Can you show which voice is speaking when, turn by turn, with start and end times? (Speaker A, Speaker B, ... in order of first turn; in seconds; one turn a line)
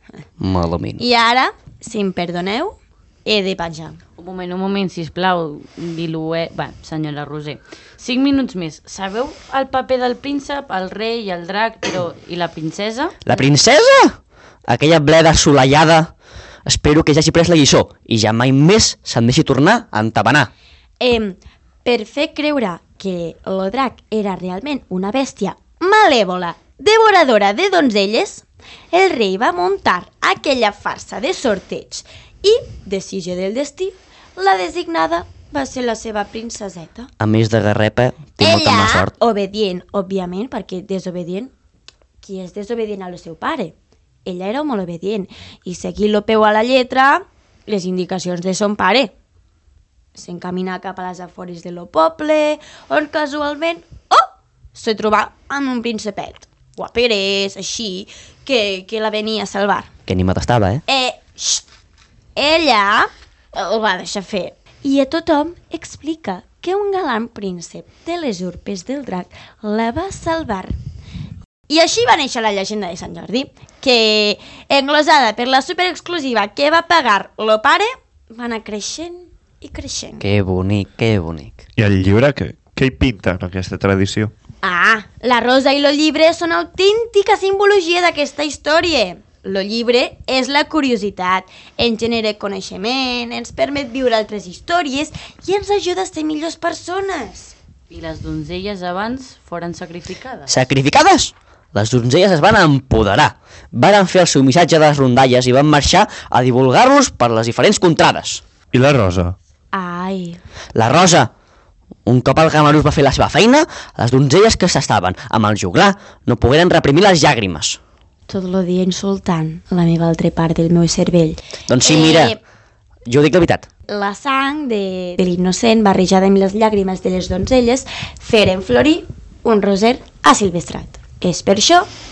Speaker A: 0.4-1.0
Speaker B: 1.0-4.0
Speaker C: 4.2-13.5
Speaker A: 13.2-16.1
Speaker A: 16.6-20.5
Speaker B: 21.0-37.1
Speaker A: 37.2-39.1
Speaker B: 38.4-41.5
Speaker B: 42.2-43.7
Speaker B: 44.2-49.1
Speaker B: 50.1-59.9
Speaker A: 60.1-60.8
Speaker B: 60.9-61.6
Speaker B: 62.4-70.7
Speaker B: 71.7-80.2
Speaker A: 80.2-81.6
Speaker D: 81.8-84.3
Speaker B: 84.6-97.5
Speaker C: 97.9-100.6
Speaker A: 100.5-108.4
Speaker D: 108.7-109.3
Speaker B: 109.7-110.4
Speaker A: 110.7-111.3
Speaker A: 112.0-117.8
Speaker B: 118.3-122.4
Speaker A: 121.7-122.3
Speaker A: 123.1-123.7
Speaker B: 123.9-131.9